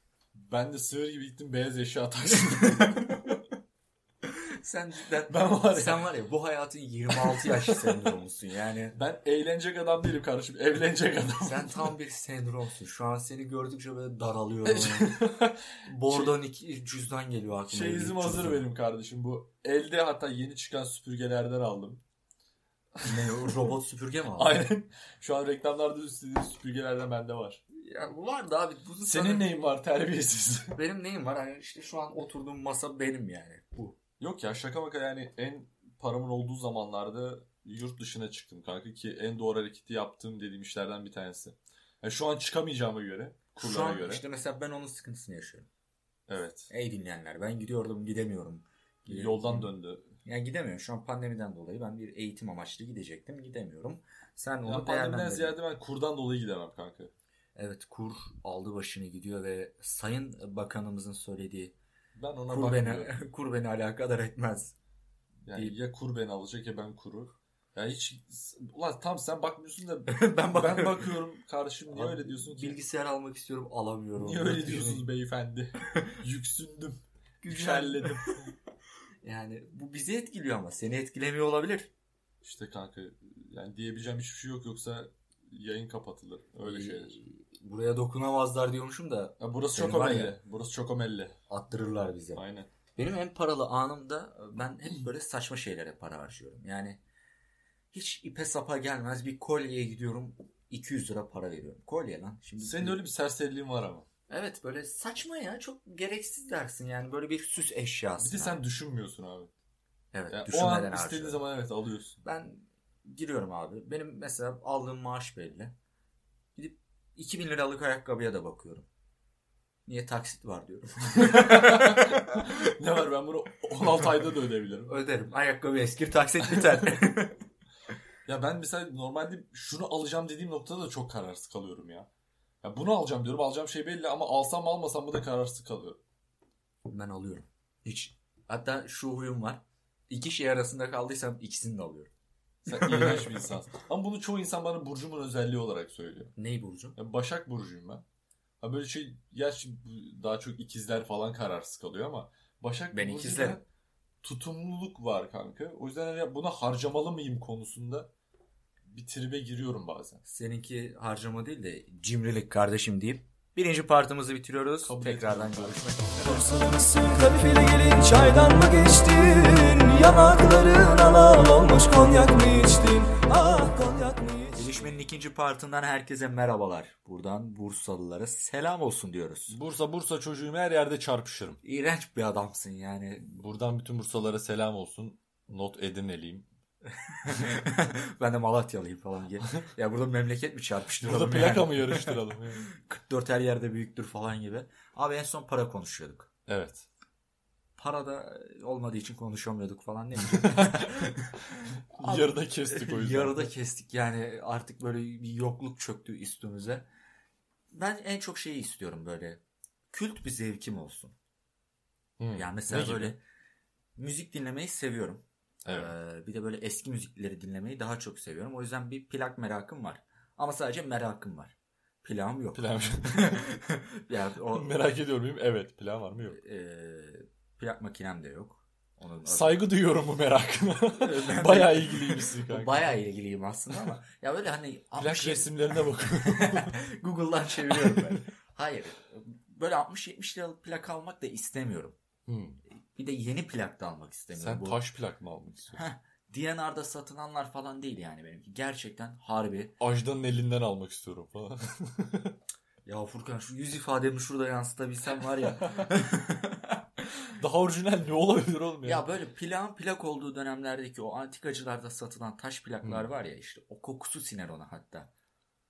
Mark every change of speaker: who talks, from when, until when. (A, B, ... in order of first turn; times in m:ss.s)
0:00.3-0:03.3 A
0:04.3-0:09.0 B
0:05.3-0:06.1 A
0:07.1-0:08.0 A
0:08.9-0:11.9 A
0:11.4-0:15.2 B
0:14.6-0:16.4 A
0:15.8-0:18.6 B
0:17.7-0:22.0 A
0:23.0-0:23.7 A
0:23.0-0:24.7 B
0:24.4-0:27.6 A
0:27.7-0:29.5 B
0:29.0-0:30.8 A
0:30.7-0:34.0 B
0:34.2-0:44.2 A
0:43.6-0:45.7 B
0:46.3-0:46.7 A
0:46.7-0:49.7 B
0:49.0-0:50.1 A
0:50.2-0:55.6 B
0:54.6-0:57.1 A
0:57.5-1:01.7 B
1:02.2-1:03.1 A
1:02.5-1:04.7 B
1:05.4-1:12.8 A
1:05.5-1:05.8 B
1:10.1-1:11.1 B
1:11.9-1:15.1 B
1:14.2-1:18.5 A
1:17.4-1:18.5 B
1:19.2-1:21.9 B
1:22.4-1:27.2 A
1:26.6-1:30.4 B
1:29.4-1:31.4 A
1:31.5-1:32.4 B
1:32.4-1:32.7 A
1:32.9-1:37.0 B
1:37.9-1:43.0 B
1:42.6-1:44.1 A
1:44.3-1:48.6 B
1:48.2-1:49.5 A
1:50.1-1:51.4 B
1:50.3-1:52.2 A
1:52.2-1:55.7 B
1:56.6-1:58.8 B
1:59.8-2:02.7 B
2:01.1-2:05.0 A
2:04.9-2:07.4 B
2:08.2-2:12.1 A
2:12.6-2:16.0 A
2:16.9-2:22.1 B
2:22.6-2:26.3 A
2:22.7-2:23.2 B
2:26.4-2:27.0 B
2:27.0-2:28.0 A
2:28.6-2:33.6 A
2:32.9-2:33.6 B
2:34.2-2:38.1 A
2:38.9-2:40.2 A
2:40.2-2:48.9 B
2:44.8-2:46.0 A
2:47.4-2:53.2 C
2:49.7-2:59.6 B
2:59.5-3:01.6 A
3:01.6-3:03.3 B
3:03.2-3:06.5 A
3:07.1-3:12.2 B
3:11.0-3:12.7 A
3:12.7-3:16.3 B
3:16.5-3:16.9 A
3:17.8-3:26.8 B
3:20.3-3:20.9 A
3:21.9-3:23.5 A
3:27.7-3:31.1 B
3:32.2-3:33.1 A
3:32.3-3:33.2 B
3:34.0-3:44.7 B
3:35.6-3:35.9 A
3:42.5-3:43.4 A
3:44.5-3:46.4 A
3:46.3-3:49.6 B
3:49.2-3:53.0 A
3:50.9-3:55.5 B
3:55.0-3:56.8 A
3:56.0-4:02.0 B
3:57.6-3:58.2 A
4:02.2-4:02.6 A
4:02.9-4:04.8 B
4:04.3-4:05.8 A
4:05.7-4:09.8 B
4:09.8-4:12.4 A
4:12.8-4:16.8 B
4:17.4-4:19.0 A
4:18.8-4:25.1 B